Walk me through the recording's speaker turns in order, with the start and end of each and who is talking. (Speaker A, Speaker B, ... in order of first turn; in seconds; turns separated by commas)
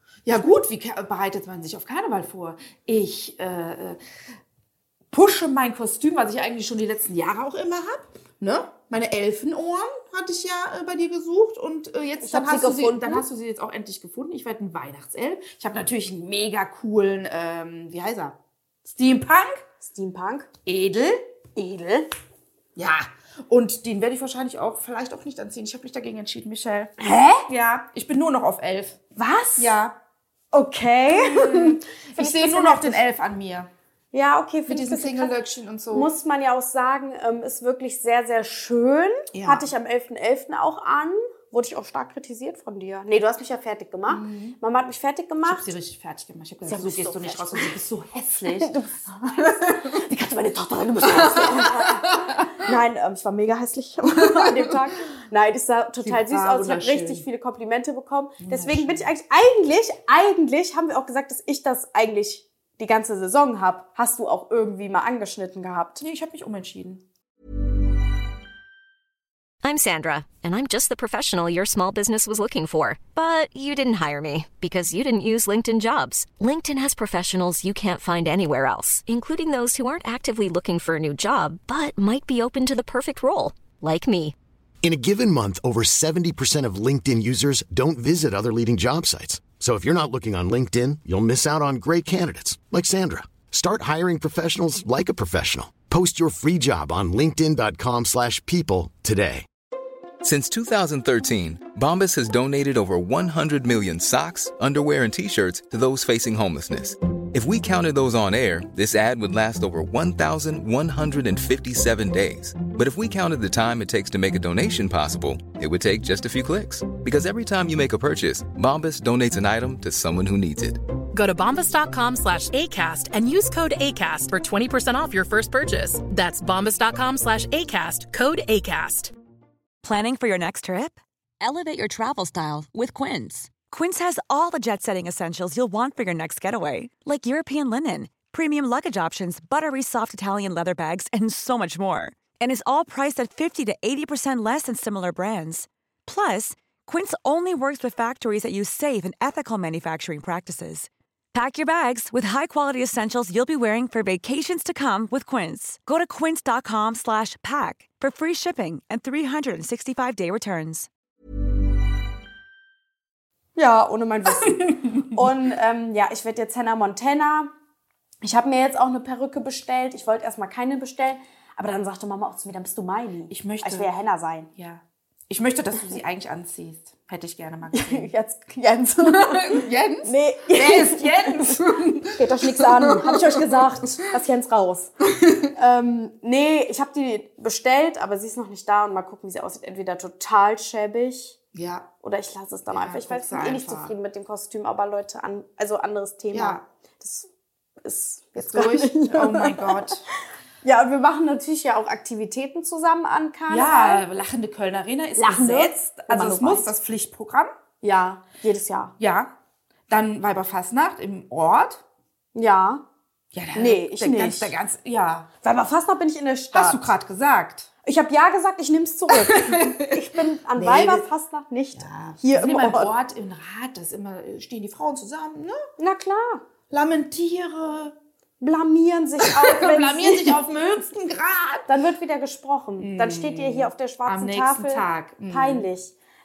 Speaker A: 0.3-4.0, Speaker A: 5.1-19.6, Speaker B: 12.2-13.2, Speaker B: 19.8-20.5, Speaker A: 20.7-21.2, Speaker B: 21.6-22.1, Speaker A: 22.8-26.9, Speaker B: 27.0-27.4, Speaker A: 27.5-29.0, Speaker B: 29.2-29.8, Speaker A: 29.6-29.9, Speaker B: 30.5-33.0, Speaker A: 31.1-33.7, Speaker B: 34.1-35.4, Speaker A: 34.7-36.1, Speaker B: 35.9-45.7, Speaker A: 39.3-39.7, Speaker A: 44.1-44.6, Speaker A: 45.5-48.7, Speaker B: 46.7-47.7, Speaker B: 48.5-66.0, Speaker A: 49.4-50.0, Speaker A: 51.0-52.5, Speaker A: 54.2-54.6, Speaker A: 56.0-57.2, Speaker A: 58.4-59.1, Speaker A: 66.0-67.0, Speaker C: 69.6-84.3, Speaker D: 84.8-99.5, Speaker E: 100.2-120.8, Speaker F: 121.1-129.1, Speaker G: 129.8-160.9, Speaker B: 163.6-167.5, Speaker B: 168.2-174.5, Speaker A: 173.3-173.9, Speaker A: 174.6-178.1, Speaker B: 177.7-184.9, Speaker A: 179.0-183.7, Speaker B: 185.5-191.4, Speaker A: 191.5-191.9, Speaker B: 192.0-197.3, Speaker A: 192.7-193.9, Speaker A: 196.3-196.6, Speaker B: 197.8-200.0, Speaker A: 198.4-200.0, Speaker B: 200.6-204.0, Speaker A: 203.5-207.5, Speaker B: 205.2-206.7, Speaker B: 207.8-208.9, Speaker A: 209.0-209.3, Speaker A: 209.9-211.8, Speaker B: 212.3-212.8, Speaker A: 213.3-215.3, Speaker B: 213.6-214.5, Speaker B: 215.4-216.9, Speaker A: 216.5-217.7, Speaker B: 217.8-222.9, Speaker A: 219.1-220.0, Speaker A: 220.6-221.1, Speaker A: 221.8-225.7, Speaker B: 225.8-226.4, Speaker A: 226.7-227.9, Speaker B: 228.4-230.4, Speaker A: 229.2-231.7, Speaker B: 231.7-235.9, Speaker A: 232.8-235.7